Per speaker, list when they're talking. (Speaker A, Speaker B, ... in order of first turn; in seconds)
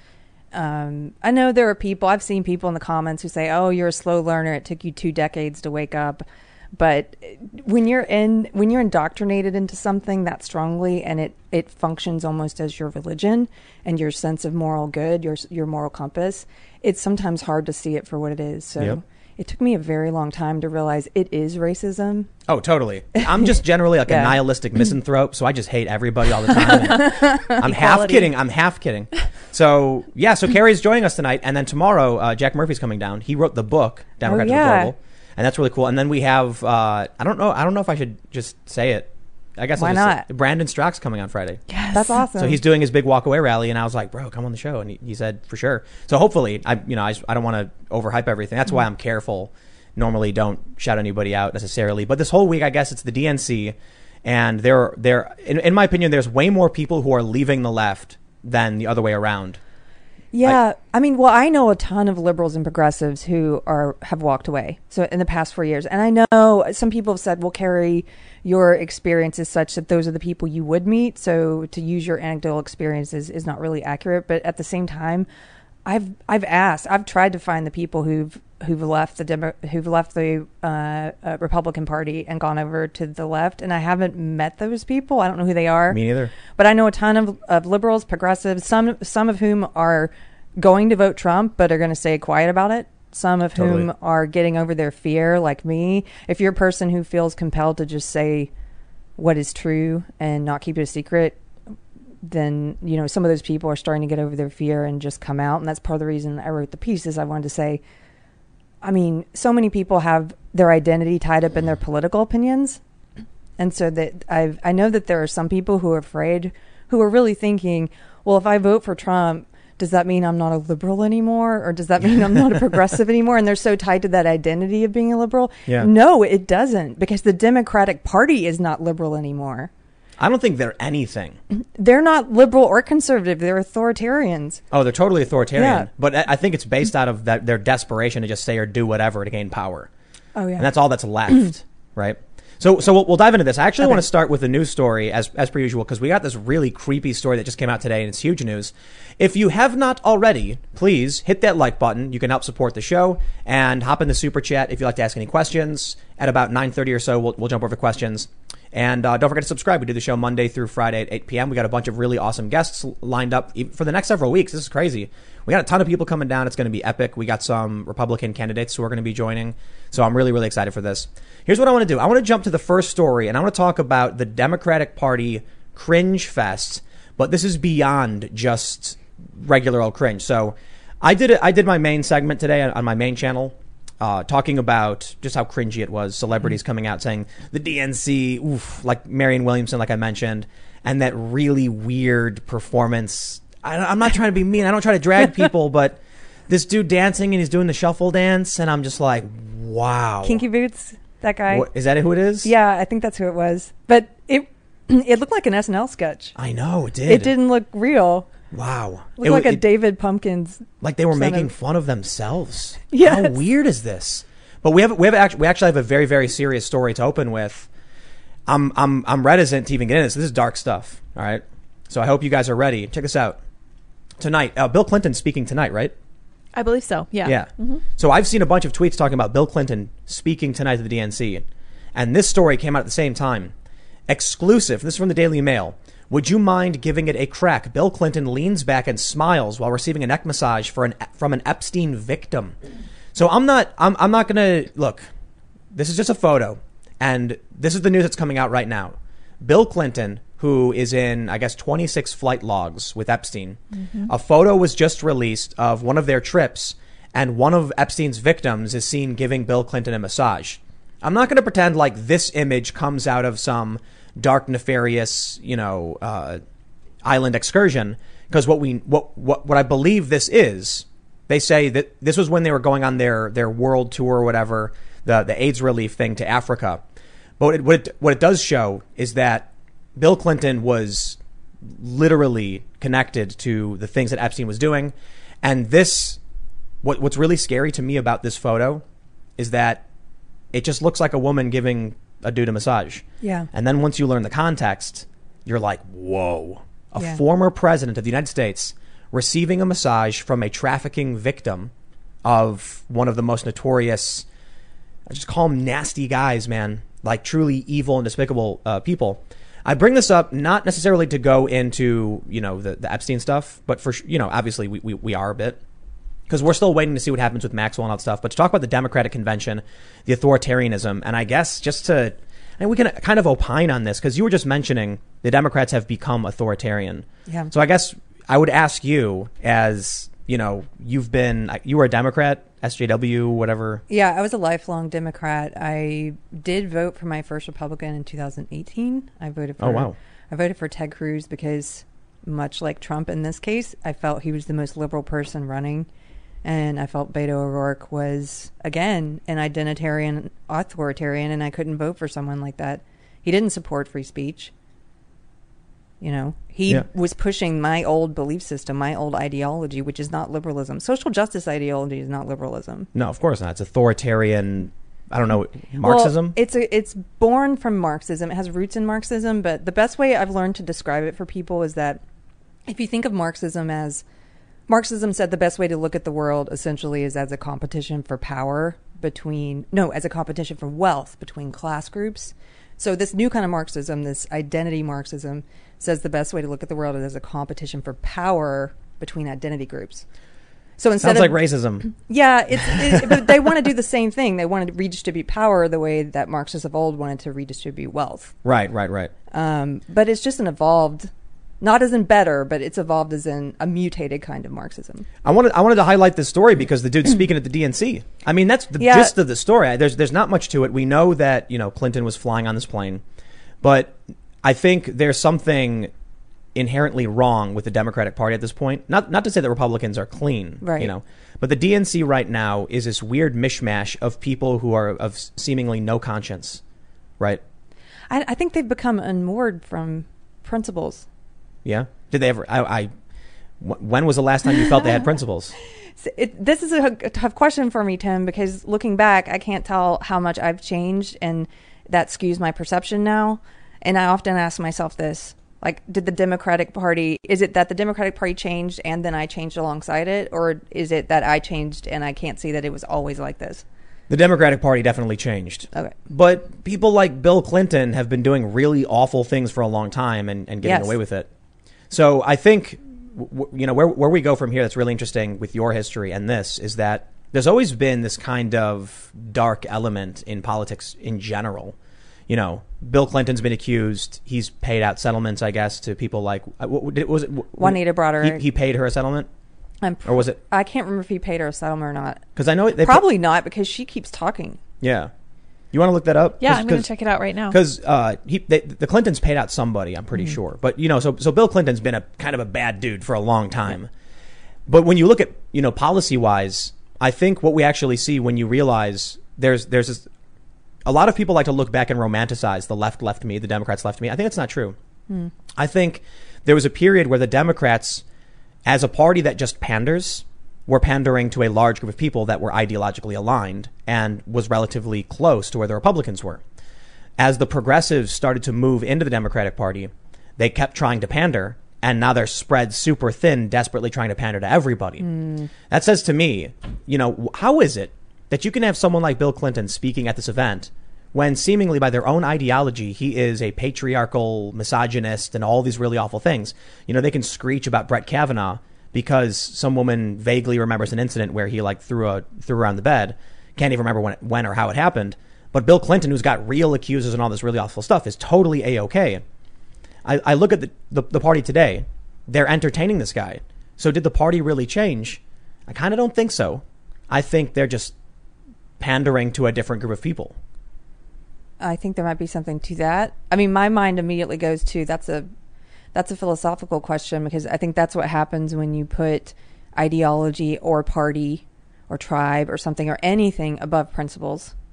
Speaker A: 0.5-22.3, 23.1-23.5, 24.1-24.4, 26.5-28.1, 34.2-34.9, 39.8-40.2, 41.9-42.6, 60.3-75.3, 75.8-98.5, 99.2-101.4, 102.2-107.8, 108.8-112.8, 113.6-129.7, 131.5-134.6, 135.6-135.9, 140.3-140.7, 200.2-201.7, 202.4-206.3, 207.1-208.3, 209.2-211.5, 212.9-213.4, 293.2-293.5, 333.9-345.9, 346.4-354.5, 356.0-362.9, 365.8-372.0, 372.7-374.0, 374.7-390.0, 390.8-398.3, 399.3-405.1, 408.8-409.1, 420.6-420.9, 428.1-431.1, 435.9-453.6, 460.6-460.9, 477.6-478.4, 479.8-484.6, 525.0-525.5, 561.6-565.3, 565.9-574.5
Speaker B: 22.5-41.6, 42.3-59.6, 85.9-86.3, 93.5-93.9, 130.2-131.4, 134.7-139.9, 140.6-200.4, 201.5-202.5, 206.3-207.3, 208.5-209.6, 210.8-217.7, 218.5-223.4, 224.2-225.9, 227.2-231.4, 231.9-233.5, 234.1-242.5, 243.1-245.0, 245.7-266.4, 267.0-276.8, 277.4-286.2, 286.8-288.8, 289.4-289.8, 290.5-301.7, 302.2-304.2, 305.1-315.6, 316.3-333.8, 339.6-339.9, 362.9-366.4, 391.0-391.9, 392.6-393.0, 398.4-399.1, 405.2-413.0, 413.6-415.9, 416.5-426.6, 431.6-432.9, 433.6-435.5, 454.1-461.3, 461.9-471.8, 472.3-479.3, 480.1-480.4, 482.4-483.0, 484.8-485.1, 485.7-486.9, 487.5-493.9, 494.7-500.1, 500.9-504.8, 505.5-508.0, 508.6-516.4, 517.2-525.1, 525.7-549.2, 550.0-557.9, 558.8-560.4
Speaker C: 27.6-28.2, 41.7-42.2, 226.5-227.8, 253.8-254.1, 486.4-487.6